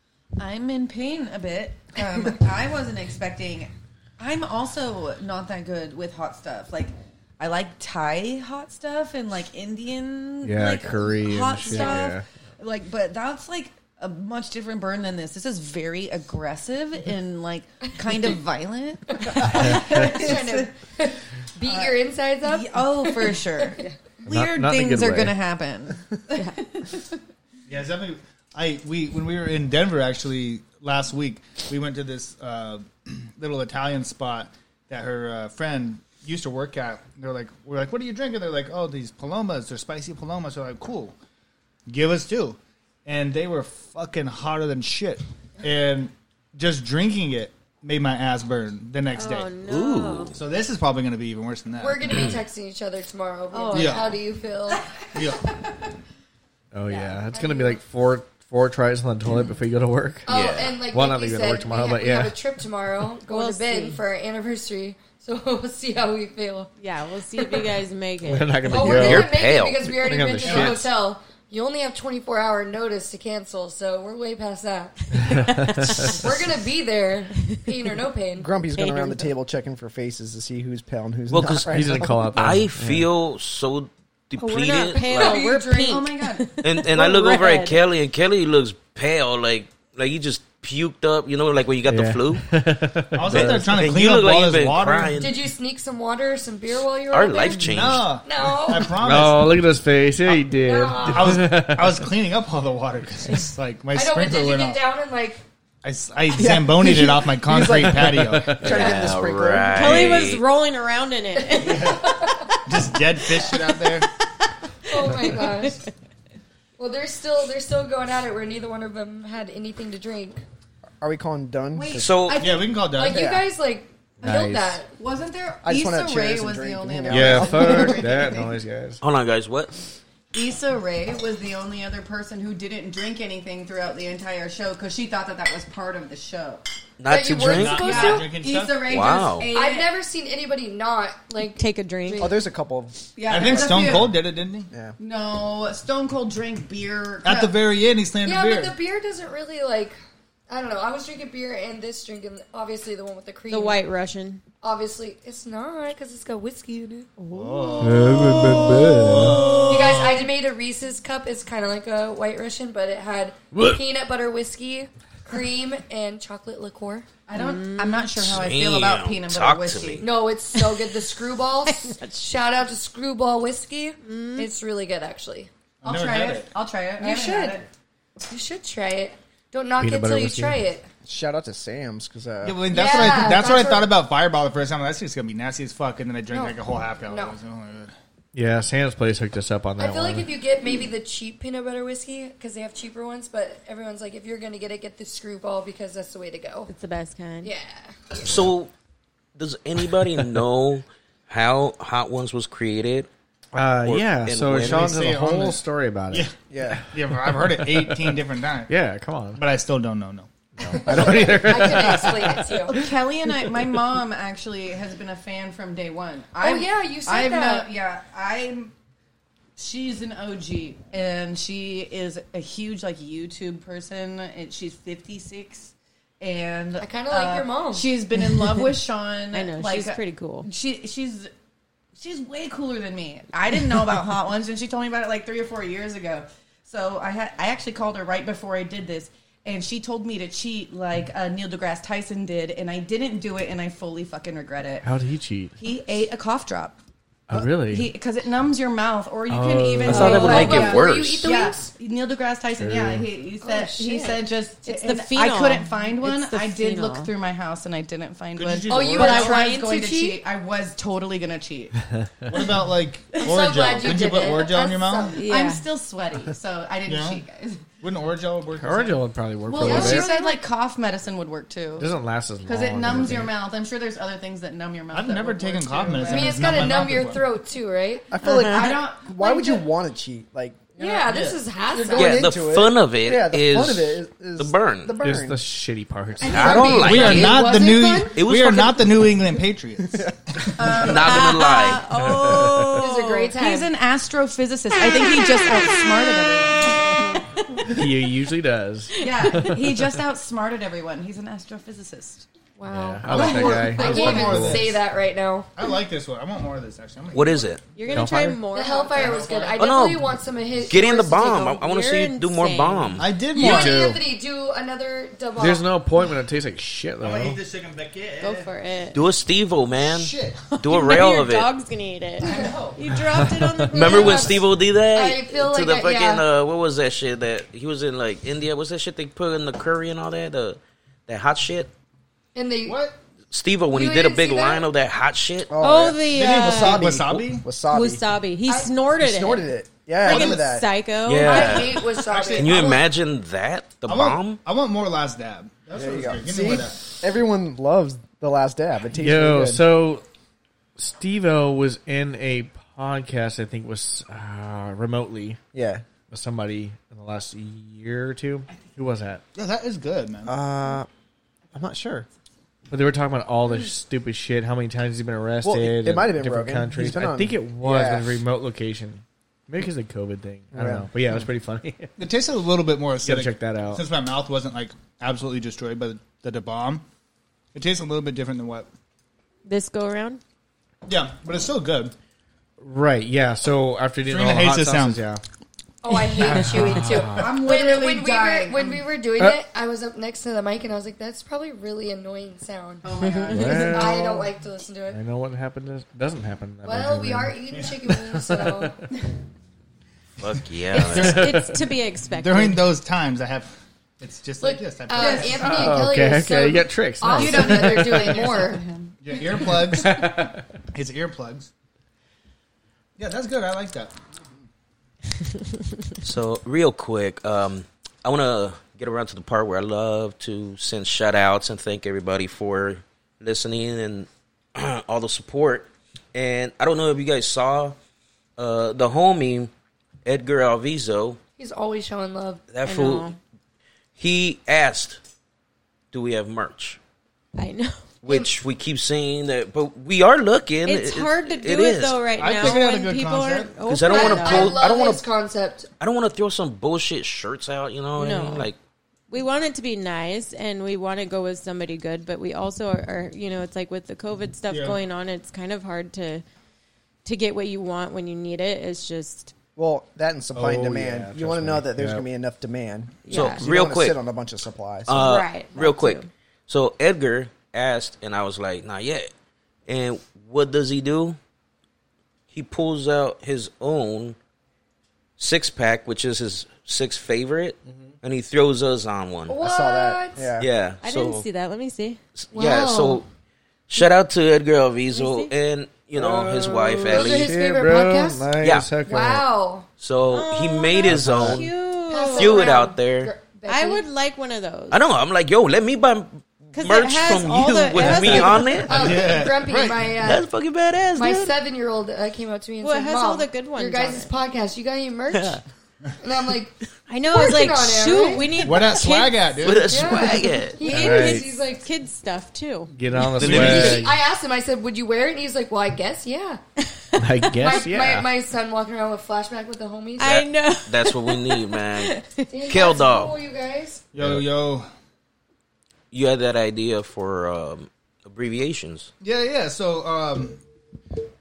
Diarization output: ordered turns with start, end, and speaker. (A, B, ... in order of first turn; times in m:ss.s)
0:00.4-0:20.7 A
0:10.4-0:12.3 B
0:11.7-0:12.1 C
0:19.2-0:23.9 C
0:21.6-0:26.9 A
0:24.3-0:25.4 B
0:27.7-0:41.2 D
0:41.9-0:49.5 D
0:49.1-0:50.3 E
0:49.7-0:50.3 F
0:50.3-0:52.4 D
0:51.8-0:54.8 C
0:53.5-0:54.1 E
0:53.8-0:54.2 D
0:54.9-0:55.3 A
0:55.2-0:55.4 D
0:56.7-1:02.4 B
0:56.9-0:57.2 E
0:57.3-0:57.8 C
1:00.3-1:06.7 C
1:00.3-1:00.8 F
1:03.3-1:04.0 E
1:06.8-1:08.9 E
1:08.2-1:10.9 B
1:08.7-1:18.5 C
1:08.7-1:09.8 F
1:15.2-1:16.2 B
1:15.3-1:16.2 E
1:18.4-1:22.4 G
1:18.8-1:19.3 E
1:21.3-1:21.8 F
1:21.7-1:23.1 B
1:22.4-1:25.4 F
1:24.4-1:27.8 E
1:24.9-1:26.1 C
1:25.8-1:26.5 A
1:26.6-1:32.4 F
1:31.9-1:33.9 B
1:33.1-1:35.2 D
1:33.2-1:35.4 F
1:35.2-1:39.0 C
1:37.1-1:38.1 F
1:37.6-1:39.6 D
1:39.0-1:42.1 B
1:40.5-1:41.4 C
1:41.0-1:44.8 D
1:43.9-1:45.4 C
1:45.8-1:48.6 D
1:46.4-1:50.2 G
1:47.6-1:48.9 B
1:48.6-1:50.4 F
1:48.7-1:49.1 C
1:49.7-1:52.0 E
1:51.4-1:52.6 C
1:52.7-1:54.1 D
1:54.9-1:55.8 E
1:54.9-1:55.8 C
1:56.8-2:00.4 C
2:01.0-2:02.2 G
2:01.8-2:02.9 A
2:02.0-2:02.4 F
2:02.4-2:03.3 D
2:03.0-2:04.9 C
2:03.1-2:03.5 G
2:04.2-2:04.8 B
2:04.9-2:08.6 A
2:05.6-2:08.0 G
2:07.1-2:09.0 B
2:09.0-2:09.8 F
2:10.3-2:16.6 A
2:17.0-2:18.0 F
2:17.1-2:18.4 C
2:17.4-2:19.0 D
2:17.8-2:19.9 A
2:18.9-2:19.5 F
2:19.5-2:22.4 C
2:21.6-2:22.3 E
2:22.2-2:24.1 G
2:23.2-2:24.2 A
2:23.3-2:24.7 D
2:24.7-2:25.0 G
2:25.0-2:27.6 A
2:27.2-2:28.8 D
2:28.2-2:30.0 C
2:30.5-2:33.8 C
2:33.5-2:34.4 E
2:34.6-2:37.1 C
2:37.2-2:38.0 E
2:37.3-2:40.3 D
2:37.8-2:39.6 B
2:39.7-2:47.1 C
2:43.5-2:43.8 B
2:47.3-2:50.1 A
2:47.3-2:48.1 E
2:48.2-2:50.0 F
2:50.0-2:55.5 C
2:51.7-2:52.1 E
2:54.0-2:54.5 E
2:55.8-2:57.7 A
2:55.8-2:56.5 D
2:57.0-2:57.6 C
2:58.3-3:00.9 C
2:59.8-3:00.6 B
3:01.0-3:03.2 G
3:02.4-3:07.9 D
3:02.7-3:03.9 C
3:06.3-3:07.4 C
3:08.4-3:10.3 B
3:09.8-3:16.7 C
3:16.7-3:17.5 E
3:17.4-3:18.2 C
3:18.2-3:18.7 F
3:19.4-3:23.1 F
3:23.5-3:29.4 B
3:23.8-3:24.9 F
3:24.6-3:26.3 D
3:26.5-3:26.8 G
3:26.9-3:28.7 D
3:29.4-3:30.3 D
3:30.6-3:33.6 B
3:30.7-3:32.8 C
3:32.6-3:38.7 A
3:36.4-3:37.7 C
3:39.6-3:51.3 A
3:46.8-3:48.0 C
3:49.3-3:50.5 E
3:52.0-4:04.9 A
4:04.8-4:05.6 B
4:05.6-4:06.8 A
4:07.3-4:07.9 B
4:07.3-4:21.8 A
4:09.3-4:10.6 B
4:09.9-4:11.3 F
4:09.9-4:11.7 C
4:12.6-4:13.1 B
4:13.4-4:14.2 C
4:14.6-4:17.1 E
4:18.4-4:19.5 D
4:18.7-4:20.2 C
4:22.3-4:25.2 D
4:23.2-4:25.2 C
4:23.8-4:24.2 A
4:25.2-4:25.6 E
4:25.2-4:27.7 A
4:26.9-4:27.2 D
4:27.8-4:29.0 D
4:28.6-4:30.1 B
4:29.4-4:36.4 A
4:29.6-4:30.3 C
4:29.8-4:30.3 E
4:31.8-4:33.3 B
4:34.9-4:37.2 D
4:36.1-4:38.1 C
4:38.1-4:45.4 G
4:38.4-4:39.6 A
4:40.8-4:42.3 C
4:41.1-4:41.4 D
4:42.0-4:44.9 F
4:45.0-4:47.3 B
4:46.2-4:48.2 C
4:46.2-4:47.4 F
4:46.7-4:50.4 D
4:48.2-4:49.1 F
4:50.6-4:51.4 A
4:50.8-4:51.8 F
4:50.9-4:53.4 E
4:52.0-4:52.8 B
4:52.8-4:53.7 C
4:53.3-4:57.0 A
4:57.7-5:00.0 B
4:59.0-5:02.3 A
4:59.1-4:59.5 E
5:02.6-5:05.5 C
5:02.7-5:04.7 B
5:03.0-5:04.8 D
5:05.6-5:07.5 D
5:07.1-5:07.6 F
5:07.8-5:09.2 E
5:07.9-5:08.4 B
5:08.5-5:11.4 C
5:09.0-5:09.7 D
5:09.6-5:13.1 F
5:11.1-5:13.0 E
5:13.0-5:14.0 D
5:13.3-5:15.7 C
5:13.4-5:14.0 B
5:15.4-5:17.4 B
5:17.0-5:18.5 D
5:18.2-5:19.0 E
5:18.9-5:21.5 F
5:19.8-5:20.4 D
5:20.5-5:24.4 E
5:22.2-5:22.6 C
5:22.2-5:22.8 D
5:23.1-5:23.8 B
5:23.7-5:31.7 F
5:23.8-5:26.2 C
5:32.4-5:32.8 C
5:32.7-5:33.0 D
5:33.3-5:35.5 F
5:33.7-5:34.7 C
5:35.5-5:38.0 G
5:35.6-5:36.8 E
5:36.1-5:37.4 D
5:37.7-5:39.5 E
5:39.0-5:40.7 G
5:40.0-5:41.8 E
5:40.0-5:40.5 D
5:41.1-5:44.4 F
5:41.2-5:42.7 C
5:41.8-5:42.9 D
5:43.8-5:46.8 D
5:45.7-5:49.6 G
5:49.0-5:50.0 B
5:50.8-5:55.4 B
5:55.5-5:55.8 G
5:56.1-5:59.2 B
5:59.4-6:00.3 D
6:00.3-6:00.9 G
6:01.5-6:02.1 G
6:02.7-6:11.9 B
6:05.4-6:08.2 G
6:10.5-6:10.9 G
6:12.0-6:16.8 D
6:13.0-6:13.8 B
6:17.5-6:18.7 D
6:19.5-6:20.2 E
6:20.9-6:21.9 D
6:22.6-6:25.2 B
6:24.0-6:25.0 D
6:25.8-6:35.0 C
6:26.1-6:27.5 B
6:27.0-6:28.8 A
6:32.8-6:34.3 A
6:33.3-6:34.2 B
6:34.9-6:38.8 B
6:36.6-6:38.8 C
6:40.2-6:41.2 F
6:40.7-6:42.7 E
6:40.8-6:41.2 D
6:41.0-6:41.6 B
6:42.1-6:45.8 D
6:44.4-6:48.7 C
6:45.0-6:45.5 A
6:45.6-6:48.2 B
6:47.2-6:49.6 A
6:49.0-6:50.1 D
6:49.8-6:50.6 B
6:50.7-6:51.5 D
6:53.0-6:53.9 D
6:56.0-7:07.8 F
7:08.4-7:09.5 F
7:10.0-7:11.2 F
7:11.4-7:12.4 C
7:12.5-7:13.1 F
7:12.6-7:13.2 E
7:14.0-7:15.0 F
7:15.9-7:16.8 F
7:17.4-7:17.8 E
7:18.0-7:22.6 F
7:18.0-7:18.3 C
7:20.6-7:24.6 E
7:22.2-7:23.6 D
7:23.7-7:25.0 F
7:23.9-7:25.7 C
7:25.8-7:28.6 F
7:28.0-7:28.5 E
7:29.1-7:36.2 E
7:34.5-7:34.8 D
7:37.0-7:39.3 E
7:39.6-7:45.1 G
7:40.4-7:42.0 B
7:43.1-7:43.4 E
7:43.1-7:44.0 F
7:44.9-7:49.1 F
7:45.0-7:46.1 E
7:49.7-7:51.2 F
7:52.3-7:54.2 F
7:55.2-7:59.4 F
7:59.3-8:00.3 C
7:59.4-8:00.5 G
8:00.4-8:01.2 F
8:00.8-8:02.0 E
8:02.2-8:03.1 F
8:02.3-8:03.0 C
8:03.7-8:07.3 F
8:04.9-8:05.3 E
8:06.0-8:09.2 B
8:06.8-8:09.7 C
8:08.4-8:08.7 F
8:09.8-8:11.5 F
8:10.1-8:12.6 E
8:10.9-8:11.4 B
8:11.9-8:13.8 C
8:12.2-8:13.1 F
8:13.5-8:14.8 E
8:14.7-8:19.0 F
8:16.5-8:18.7 E
8:18.7-8:20.3 C
8:18.7-8:19.9 D
8:20.0-8:21.4 F
8:21.0-8:25.4 C
8:22.6-8:24.1 E
8:25.1-8:25.4 F
8:26.0-8:26.5 C
8:26.9-8:29.6 E
8:27.1-8:28.4 C
8:28.4-8:30.0 D
8:29.4-8:30.6 F
8:29.7-8:31.6 C
8:30.6-8:32.7 E
8:30.6-8:31.3 B
8:32.7-8:34.0 B
8:33.0-8:33.8 F
8:33.2-8:33.8 D
8:33.2-8:36.4 C
8:37.0-8:37.4 E
8:37.0-8:38.1 B
8:37.4-8:40.2 C
8:40.0-8:42.3 E
8:40.0-8:41.9 F
8:42.3-8:43.8 C
8:42.5-8:43.2 F
8:43.9-8:44.7 D
8:44.0-8:44.2 B
8:45.9-8:48.9 F
8:49.0-8:50.4 D